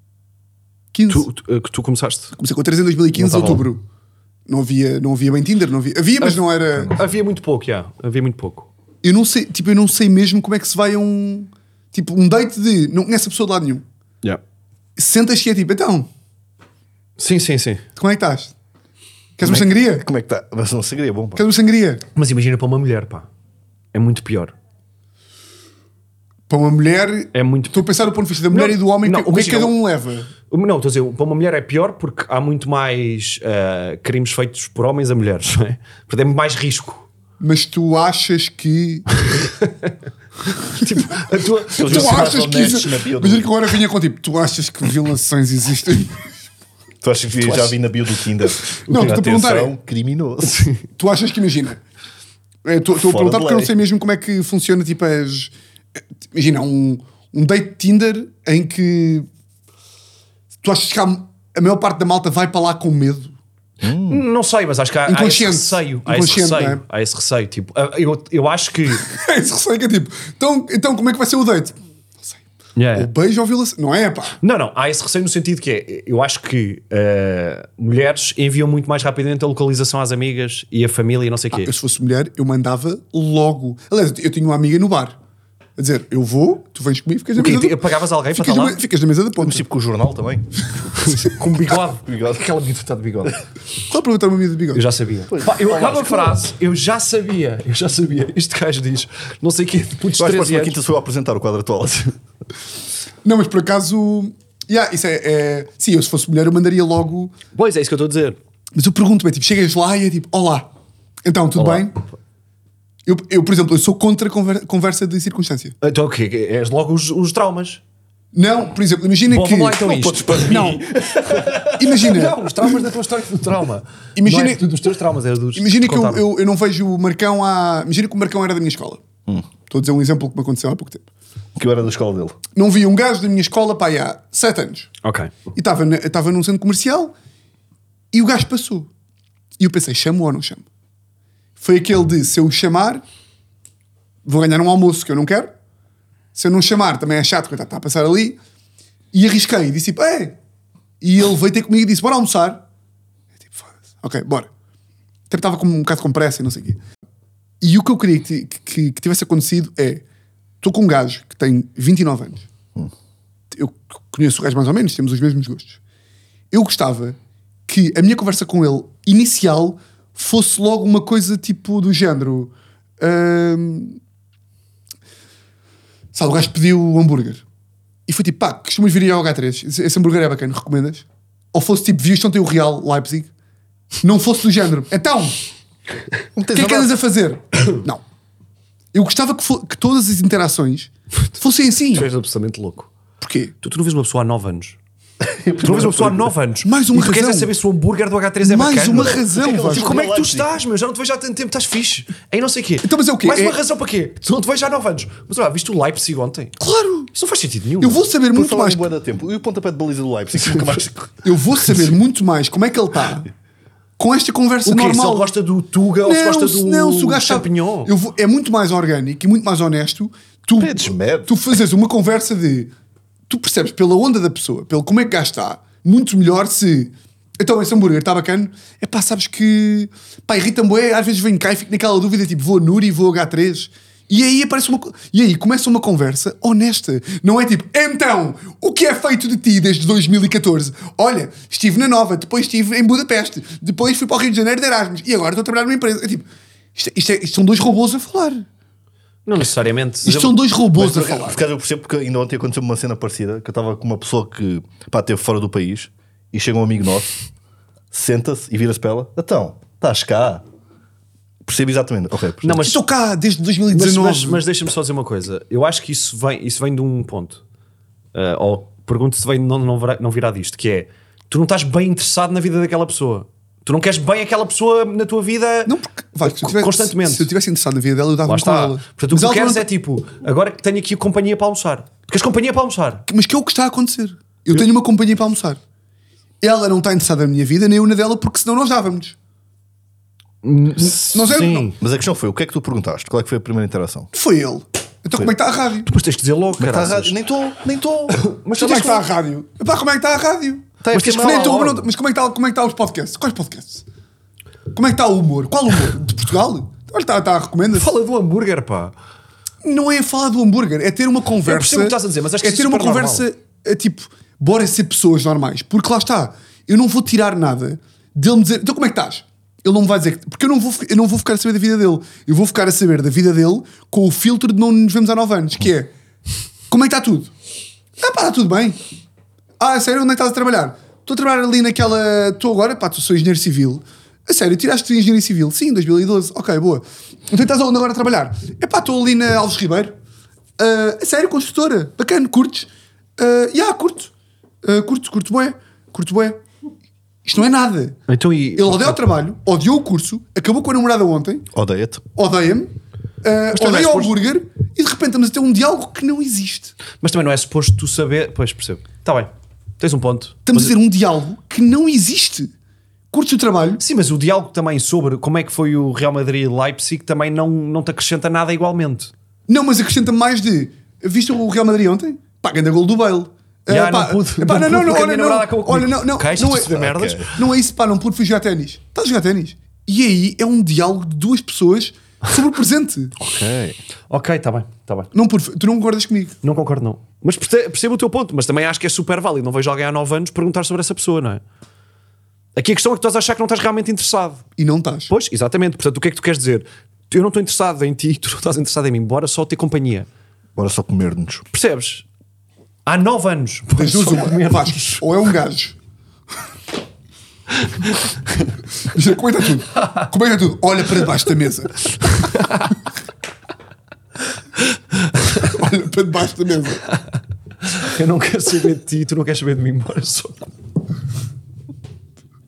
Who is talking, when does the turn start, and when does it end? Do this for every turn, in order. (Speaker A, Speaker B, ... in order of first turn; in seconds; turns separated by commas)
Speaker A: 0.9-1.3, Speaker B: 1.1-2.3, Speaker A: 2.4-3.8, Speaker B: 3.2-3.6, Speaker A: 4.5-6.9, Speaker B: 6.2-8.7, Speaker A: 9.0-13.8, Speaker A: 14.9-16.1, Speaker B: 17.2-17.8, Speaker A: 18.0-18.5, Speaker A: 19.4-20.0, Speaker C: 19.4-21.4, Speaker A: 21.4-22.0, Speaker B: 22.1-23.3, Speaker B: 23.9-24.5, Speaker A: 26.5-30.3, Speaker B: 27.3-27.9, Speaker B: 28.5-29.8, Speaker B: 30.5-37.0, Speaker A: 37.4-39.1, Speaker B: 39.3-39.9, Speaker B: 40.7-42.3, Speaker C: 41.8-43.5, Speaker A: 41.8-46.2, Speaker C: 47.0-50.7, Speaker B: 47.4-47.7, Speaker A: 48.7-49.7, Speaker B: 48.9-49.4, Speaker B: 50.5-50.8, Speaker A: 51.0-51.8, Speaker A: 52.6-55.5, Speaker C: 53.0-53.7, Speaker A: 56.3-59.3, Speaker A: 60.6-63.4, Speaker C: 63.8-64.2, Speaker B: 64.1-69.1, Speaker A: 65.1-66.8, Speaker A: 69.0-72.4, Speaker B: 72.8-73.1, Speaker A: 72.9-74.3, Speaker B: 74.4-81.7, Speaker A: 81.5-85.2, Speaker A: 85.8-87.8, Speaker B: 87.3-88.8, Speaker A: 88.3-89.6, Speaker C: 89.4-90.5, Speaker B: 91.0-93.3, Speaker C: 92.0-92.5, Speaker A: 93.9-94.8, Speaker B: 94.7-100.8, Speaker C: 95.3-96.3, Speaker C: 100.2-102.1, Speaker A: 103.2-107.3, Speaker B: 107.5-108.4, Speaker A: 108.7-110.7, Speaker A: 111.2-112.0, Speaker B: 111.5-111.9, Speaker A: 113.0-115.8, Speaker B: 115.8-117.8, Speaker A: 118.3-120.8, Speaker B: 119.3-120.8, Speaker C: 120.1-122.0, Speaker A: 121.8-122.4, Speaker B: 122.0-126.2, Speaker A: 124.2-124.7, Speaker A: 125.5-129.0, Speaker A: 129.7-131.1, Speaker C: 131.6-132.4, Speaker A: 132.5-134.9, Speaker B: 135.0-135.3, Speaker A: 135.5-137.1, Speaker A: 138.1-138.9, Speaker A: 139.6-140.6, Speaker A: 141.6-143.0, Speaker A: 144.2-145.5, Speaker A: 146.3-148.4, Speaker A: 149.1-150.4, Speaker A: 151.0-152.6, Speaker A: 153.4-154.5, Speaker A: 155.3-156.8, Speaker A: 157.6-160.0, Speaker A: 160.6-162.5, Speaker A: 163.5-165.8, Speaker A: 166.5-174.0, Speaker A: 176.1-177.4, Speaker A: 178.1-183.3, Speaker A: 184.0-185.3, Speaker C: 186.3-186.9, Speaker A: 186.5-188.0, Speaker A: 188.9-192.1, Speaker B: 191.9-192.9, Speaker A: 193.2-193.5, Speaker B: 193.6-194.8, Speaker C: 195.2-196.3, Speaker B: 195.6-206.5, Speaker A: 196.6-197.5, Speaker A: 198.4-200.0, Speaker C: 198.9-200.5, Speaker A: 202.8-203.6, Speaker A: 206.6-207.1, Speaker B: 207.1-208.0, Speaker A: 207.8-208.9, Speaker C: 208.3-211.1, Speaker A: 211.2-213.3, Speaker A: 214.0-215.3, Speaker B: 214.6-217.9, Speaker A: 216.0-222.7, Speaker C: 220.6-221.3, Speaker A: 223.3-248.4, Speaker B: 249.2-250.4, Speaker A: 250.0-251.4, Speaker C: 250.7-257.1, Speaker C: 257.9-260.4, Speaker C: 261.4-262.6, Speaker B: 262.4-262.8, Speaker A: 262.6-264.4, Speaker B: 263.7-267.4, Speaker B: 268.1-277.3, Speaker A: 275.7-279.6, Speaker B: 278.2-283.0, Speaker A: 283.1-285.6, Speaker A: 286.4-289.1, Speaker B: 290.4-291.8, Speaker A: 290.8-291.7, Speaker C: 291.8-294.1, Speaker A: 294.1-295.9, Speaker B: 295.9-297.1, Speaker C: 296.6-298.3, Speaker B: 298.1-299.1, Speaker A: 298.5-303.9, Speaker C: 300.8-301.8, Speaker B: 300.9-301.8, Speaker A: 304.7-307.9, Speaker B: 307.7-308.9, Speaker A: 309.6-325.9, Speaker B: 311.4-313.3, Speaker A: 326.7-327.3, Speaker A: 328.0-328.8, Speaker A: 329.6-339.9, Speaker A: 340.6-344.1, Speaker A: 344.6-346.4, Speaker A: 347.2-348.0, Speaker B: 348.1-349.0, Speaker A: 348.5-351.5, Speaker C: 351.5-352.0, Speaker A: 352.1-352.7, Speaker A: 353.2-356.7, Speaker B: 353.5-354.1, Speaker B: 357.0-360.7, Speaker A: 360.4-362.5, Speaker A: 363.1-363.8, Speaker B: 363.8-369.1, Speaker A: 369.5-376.8, Speaker B: 373.7-377.3, Speaker C: 376.7-377.3, Speaker A: 377.3-383.1, Speaker C: 383.2-383.8, Speaker B: 384.1-385.1, Speaker A: 385.1-386.4, Speaker B: 386.4-391.4, Speaker B: 392.5-394.4, Speaker A: 394.6-395.1, Speaker B: 395.1-400.1, Speaker C: 400.6-401.4, Speaker B: 401.5-402.0, Speaker B: 402.9-405.0, Speaker A: 403.7-405.8, Speaker A: 408.8-411.8, Speaker B: 409.8-410.1, Speaker B: 412.2-412.7, Speaker A: 415.4-416.8, Speaker B: 417.7-420.5